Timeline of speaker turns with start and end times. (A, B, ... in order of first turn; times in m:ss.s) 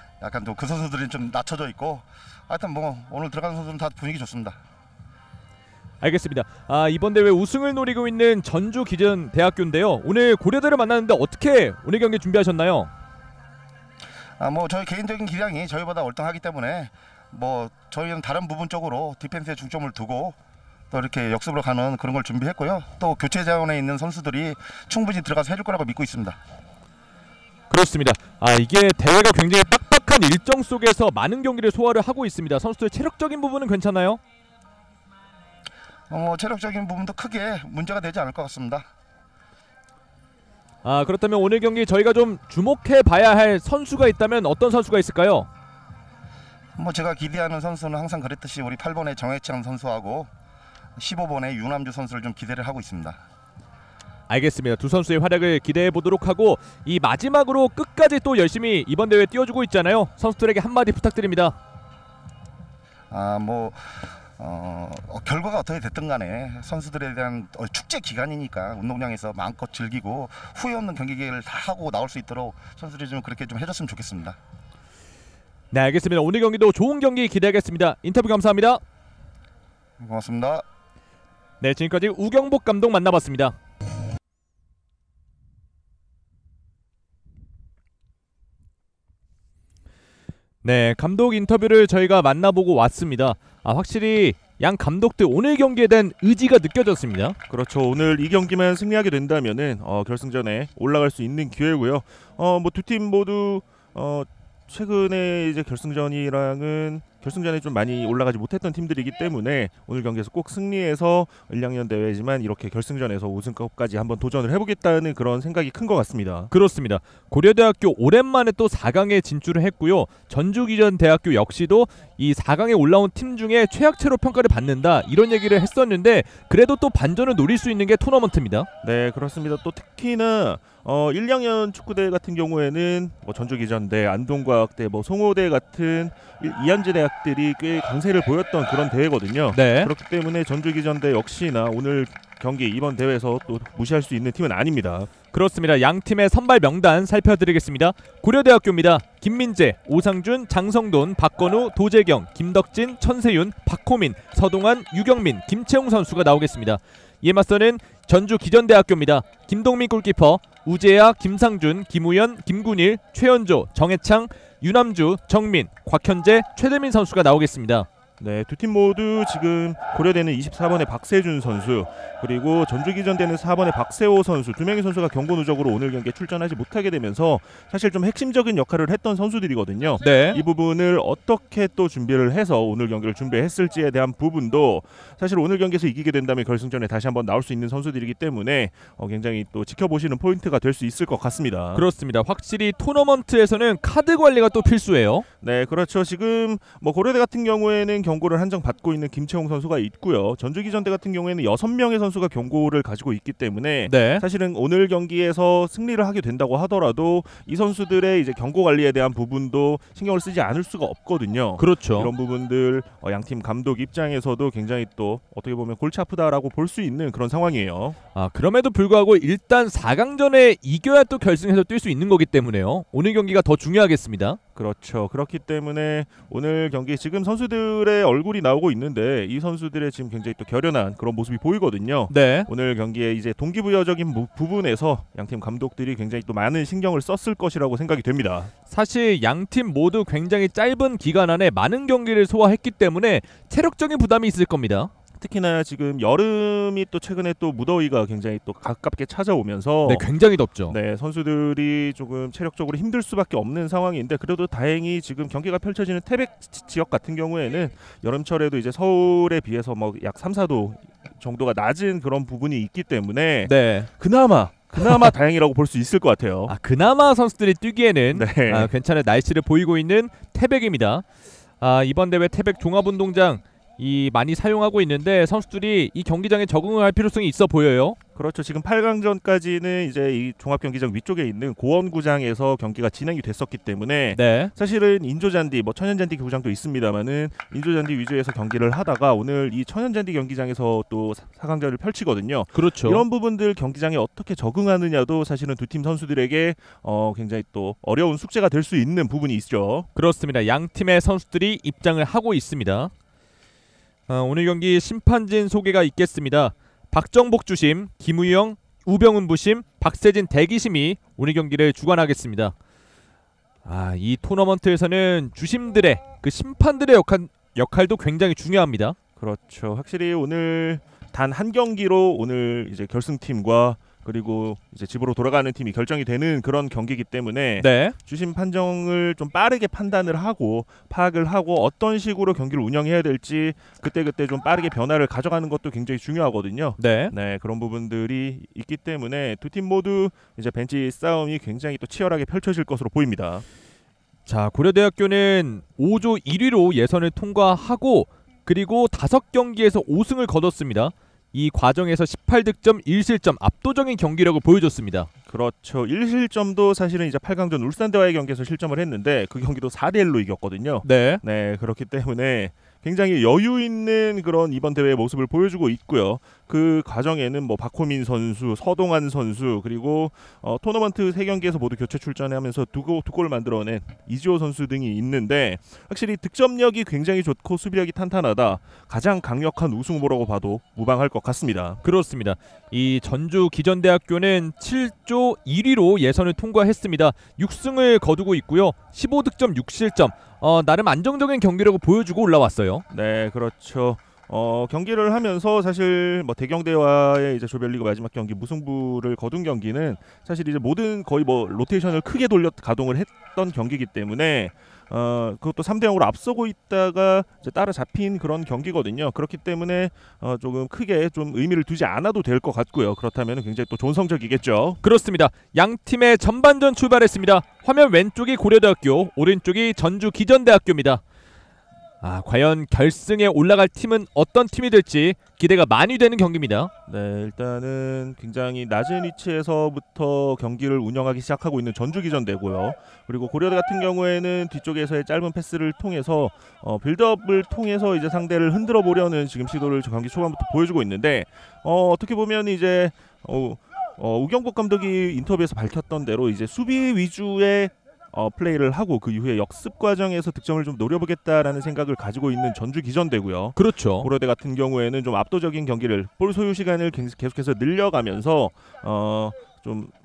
0:00.2-0:04.6 A
0:06.0-0:12.9 B
0:14.4-0:20.4 A
0:20.9-0:26.4 A
0:27.7-0:34.2 B
0:36.1-0:38.8 A
0:40.8-0:45.5 B
0:46.8-0:50.3 A
0:51.0-0:53.2 A
0:54.3-1:01.6 B
1:03.1-1:14.4 A
1:15.7-1:18.8 B
1:20.0-1:20.6 A
1:21.6-1:23.6 B
1:30.6-1:37.4 B
1:37.5-1:56.5 C
1:56.5-2:08.7 B
2:08.8-2:25.1 C
2:19.5-2:19.9 B
2:25.3-2:47.9 B
2:48.2-3:11.8 C
3:00.0-3:00.4 B
3:11.7-3:15.2 B
3:15.4-3:38.0 C
3:23.9-3:24.2 B
3:31.6-3:32.1 B
3:38.1-3:44.4 B
3:44.6-3:58.5 C
3:52.1-3:52.5 B
3:58.7-4:04.9 B
4:05.2-4:10.0 C
4:09.8-4:10.8 B
4:10.7-4:26.5 C
4:23.4-4:23.9 B
4:24.8-4:25.1 B
4:26.5-4:31.0 B
4:28.1-4:28.7 C
4:31.6-4:38.0 B
4:38.2-4:59.9 C
4:44.1-4:44.5 B
4:52.5-4:53.0 B
4:59.9-5:02.9 B
5:04.1-5:12.5 B
5:13.6-5:19.0 B
5:19.2-5:43.4 C
5:27.6-5:27.9 B
5:36.8-5:37.1 B
5:44.3-5:55.1 B
5:55.3-6:21.8 C
6:00.8-6:01.2 B
6:21.8-6:32.8 B
6:32.9-6:54.8 C
6:54.8-7:01.0 B
7:02.0-7:06.7 B
7:06.9-7:39.9 C
7:33.6-7:34.1 B